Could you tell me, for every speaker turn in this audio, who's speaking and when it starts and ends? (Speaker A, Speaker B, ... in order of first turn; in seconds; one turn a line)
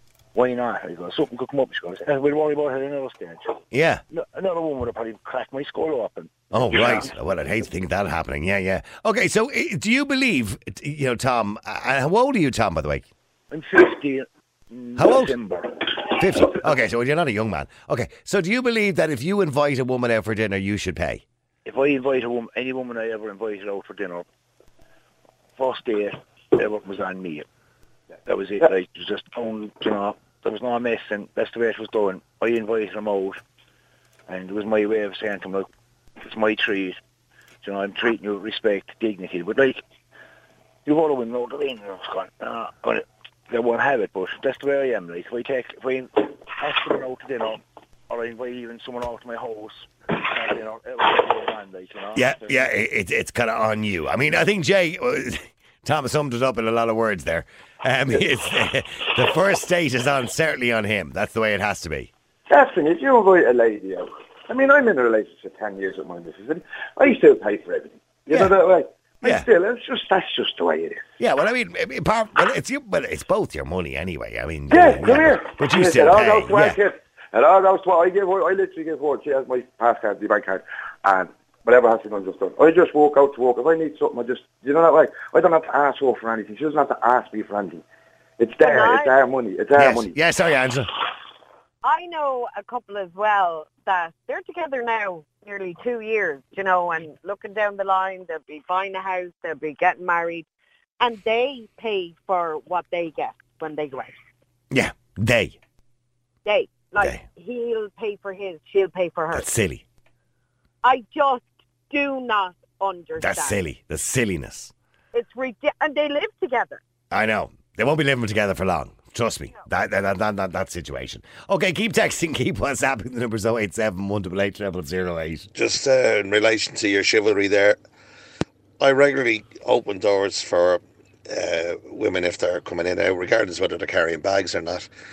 Speaker A: 0.3-7.1
Speaker B: 3.7-4.0
Speaker B: 6.5-13.1
Speaker A: 13.5-16.6
Speaker B: 15.0-15.3
Speaker B: 16.1-21.2
Speaker A: 21.6-24.2
Speaker A: 25.6-27.4
Speaker A: 28.2-33.4
Speaker A: 34.3-35.7
Speaker A: 36.2-37.0
Speaker A: 37.6-39.8
Speaker A: 40.9-52.6
Speaker B: 52.1-62.1
Speaker C: 62.5-71.0
Speaker B: 68.3-68.5
Speaker B: 71.2-76.8
Speaker C: 74.7-87.8
Speaker C: 88.4-90.1
Speaker D: 88.6-89.1
Speaker B: 89.8-90.9
Speaker D: 91.8-100.4
Speaker D: 101.0-104.2
Speaker B: 104.7-105.6
Speaker D: 106.4-109.5
Speaker B: 107.0-107.2
Speaker B: 109.3-109.8
Speaker D: 110.8-113.6
Speaker B: 113.2-114.7
Speaker D: 115.1-116.8
Speaker B: 117.1-125.5
Speaker E: 125.5-127.8
Speaker E: 128.8-134.9